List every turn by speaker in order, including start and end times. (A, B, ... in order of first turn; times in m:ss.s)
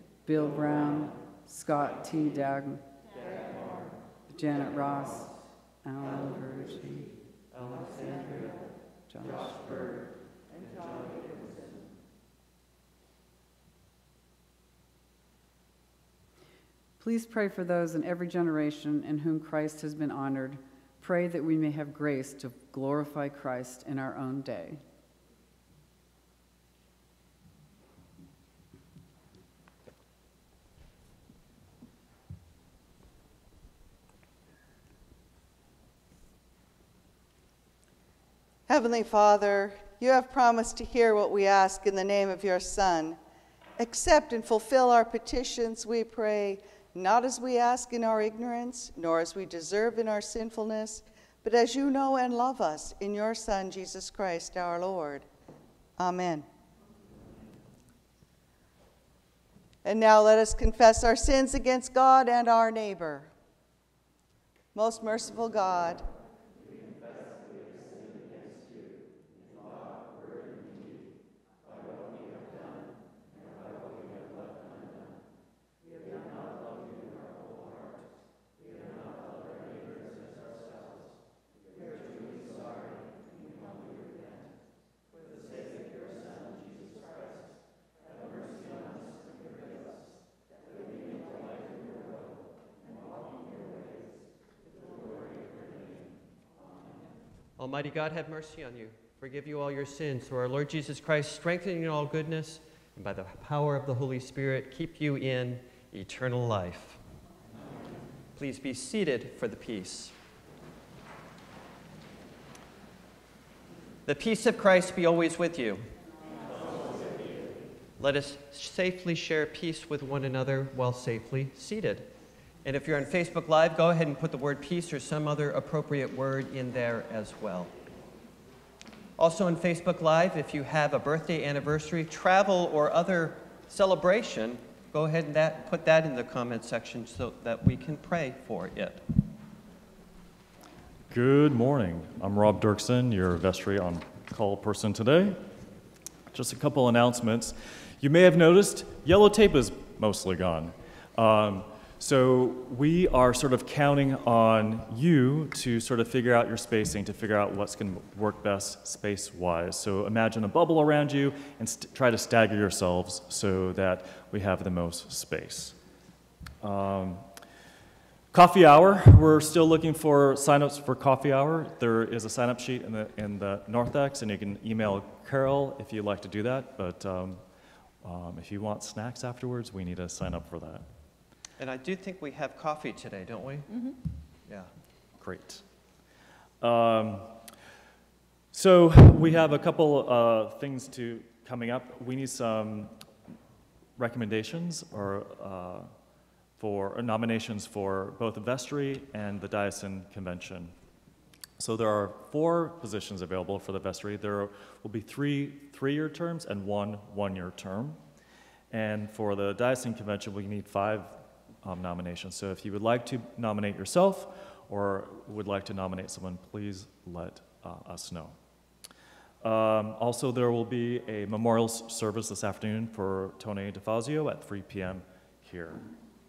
0:00.2-0:02.8 A
0:04.3-0:07.1 A
0:07.5-0:08.6 B
0:09.1-0:09.6 A
0:10.6-0:11.6 B
0:17.0-0:24.8 A
0:38.7-0:43.2 C
0:43.8-0:55.2 C
0:56.0-0:56.4 C
0:59.8-1:03.3 C
1:04.7-1:06.0 C
1:37.6-1:47.0 B
1:48.4-1:50.1 B
1:54.1-1:55.8 B
1:58.0-2:02.1 B
2:02.6-2:07.7 B
2:09.2-2:19.0 B
2:21.1-2:25.4 D
2:26.3-2:45.8 D
2:46.6-2:47.3 D
2:48.3-2:57.4 D
2:58.0-3:00.9 D
3:01.6-3:03.7 B
3:05.2-3:05.6 D
3:06.6-3:07.4 D
3:08.5-3:13.0 D
3:14.0-3:15.9 D
3:16.6-3:20.7 D
3:21.6-3:28.0 D
3:28.7-3:38.4 D
3:39.4-3:45.9 D